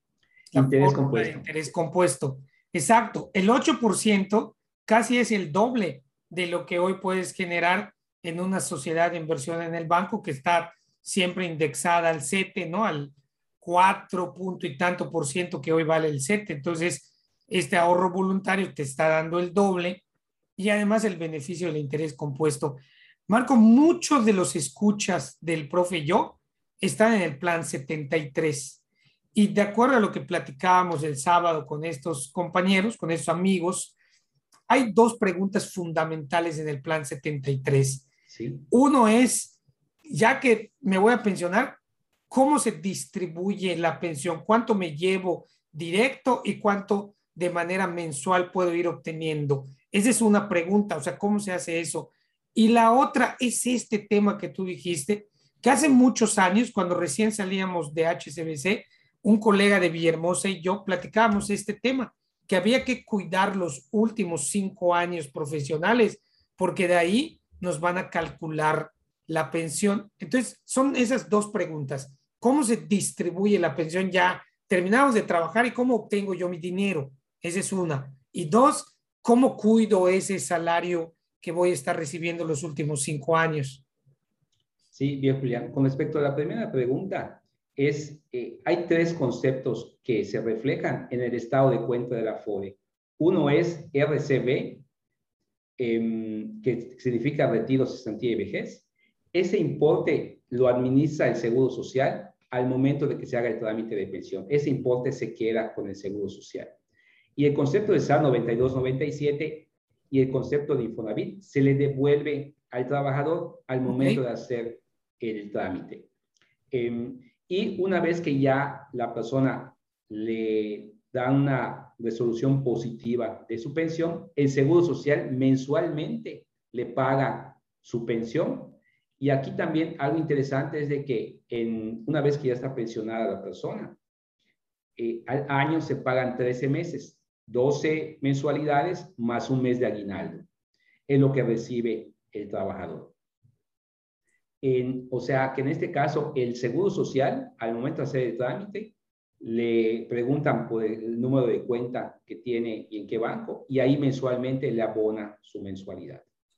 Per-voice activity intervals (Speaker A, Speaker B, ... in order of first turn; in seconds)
Speaker A: 0.5-20.0, 20.6-28.8, 29.3-34.0, 34.7-38.1, 38.7-39.6, 40.1-41.8, 42.3-83.8, 113.9-114.2
Speaker B: 0.5-1.5, 38.3-38.7, 84.9-94.8, 95.8-106.8, 107.4-116.1, 116.7-134.0, 135.0-140.5, 141.1-143.1, 144.6-156.2